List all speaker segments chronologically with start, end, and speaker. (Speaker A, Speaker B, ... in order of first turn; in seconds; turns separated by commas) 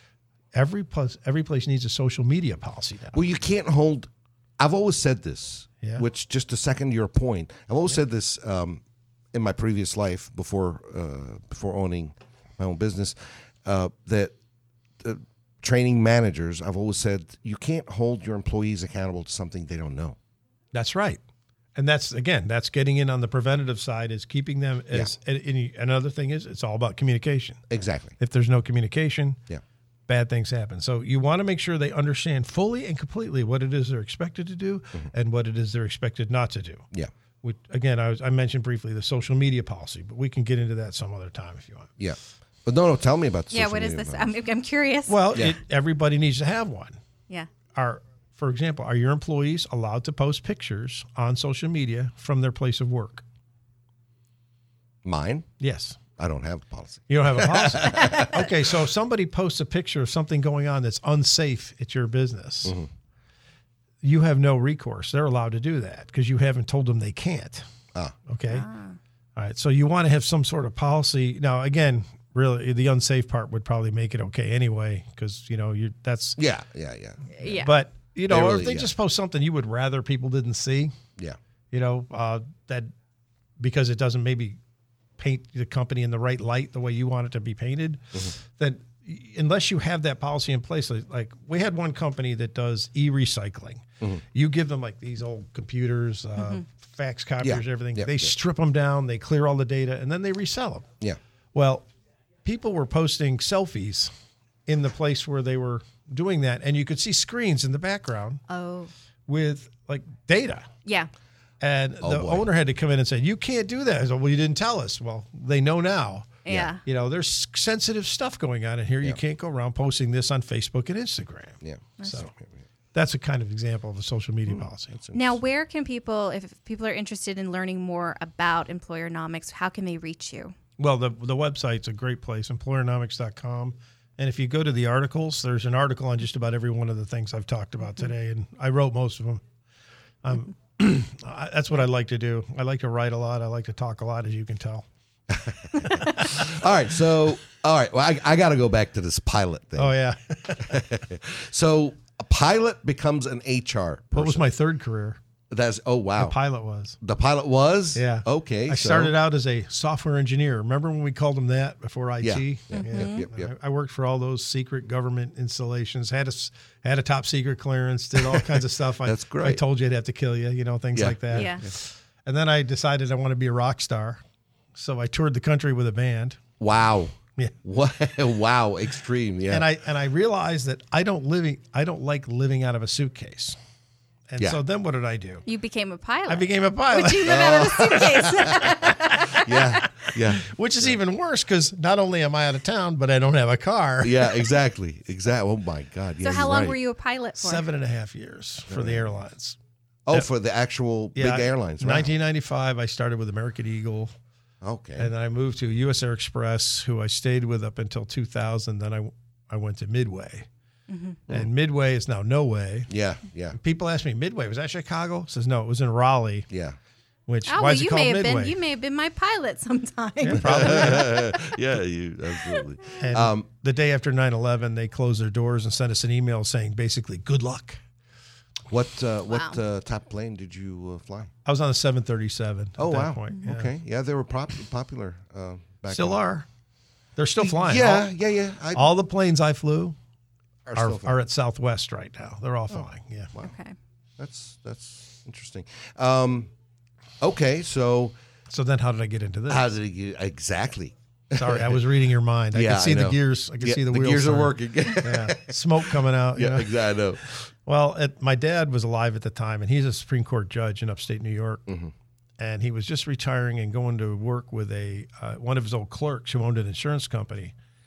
Speaker A: 0.5-3.2, Speaker B: 3.1-8.8, Speaker B: 9.3-14.3, Speaker B: 15.0-20.2, Speaker A: 20.7-21.2, Speaker A: 21.7-27.6, Speaker B: 27.7-28.1, Speaker A: 28.2-29.4, Speaker A: 30.1-36.8, Speaker A: 37.4-41.9, Speaker B: 42.0-44.3, Speaker C: 43.5-45.2, Speaker A: 45.1-47.0, Speaker A: 47.7-53.2, Speaker B: 55.0-55.5, Speaker A: 55.6-56.0, Speaker B: 56.2-58.4, Speaker A: 57.1-62.7, Speaker B: 62.6-62.9, Speaker A: 64.0-67.6, Speaker A: 68.3-68.7, Speaker C: 68.5-69.0, Speaker A: 69.3-76.4, Speaker B: 76.4-77.4, Speaker C: 77.4-77.7, Speaker A: 77.4-80.9, Speaker B: 78.3-78.9, Speaker A: 81.7-82.9, Speaker A: 83.6-84.6, Speaker A: 85.2-100.9, Speaker B: 97.4-98.3, Speaker A: 101.5-101.8, Speaker A: 102.4-104.1, Speaker A: 104.7-108.4, Speaker C: 108.5-108.9, Speaker A: 109.3-110.7, Speaker C: 110.8-111.1, Speaker A: 111.6-116.3, Speaker B: 112.0-112.5, Speaker C: 116.4-116.8, Speaker B: 116.5-116.7, Speaker A: 116.8-122.3, Speaker B: 121.6-122.5, Speaker A: 122.9-125.0, Speaker B: 124.9-125.3, Speaker C: 125.1-130.5, Speaker A: 130.8-139.4, Speaker A: 140.2-144.8, Speaker B: 145.3-149.9, Speaker A: 145.8-146.5, Speaker A: 149.8-150.8, Speaker B: 150.5-154.4, Speaker A: 154.1-155.2, Speaker B: 155.5-156.3, Speaker A: 156.2-157.0, Speaker B: 157.0-159.1, Speaker A: 157.9-174.2, Speaker B: 162.2-163.5, Speaker C: 162.7-163.2, Speaker B: 169.0-169.6, Speaker B: 170.9-171.7, Speaker C: 171.3-171.6, Speaker A: 174.7-176.4, Speaker B: 176.6-179.6, Speaker A: 179.5-183.6, Speaker A: 184.3-185.4, Speaker C: 185.4-190.1, Speaker A: 186.3-188.0, Speaker B: 187.2-191.0, Speaker A: 188.8-189.4, Speaker A: 190.4-194.3, Speaker B: 194.0-196.8, Speaker C: 196.2-197.6, Speaker A: 197.4-199.6, Speaker B: 198.7-199.1, Speaker B: 200.1-202.1, Speaker A: 201.2-204.1, Speaker B: 204.6-205.1, Speaker A: 205.0-210.5, Speaker C: 210.9-211.2, Speaker A: 211.3-212.9, Speaker B: 212.9-213.6, Speaker A: 213.5-216.5, Speaker B: 216.5-216.8, Speaker A: 217.3-218.5, Speaker C: 217.5-221.5, Speaker A: 220.2-221.1, Speaker B: 220.3-223.4, Speaker A: 223.0-227.8, Speaker B: 228.7-231.3, Speaker C: 229.3-229.6, Speaker A: 231.4-233.7, Speaker B: 232.8-236.2, Speaker A: 235.9-236.4, Speaker A: 237.2-238.1, Speaker B: 237.4-238.9, Speaker A: 238.7-239.9, Speaker B: 240.7-241.2, Speaker A: 240.7-243.3, Speaker C: 243.4-243.7, Speaker B: 244.2-246.5, Speaker B: 247.2-248.1, Speaker A: 248.5-249.6, Speaker B: 249.5-251.8, Speaker A: 251.3-261.6, Speaker B: 252.5-255.6, Speaker B: 256.3-257.2, Speaker B: 261.7-261.9, Speaker A: 262.4-267.5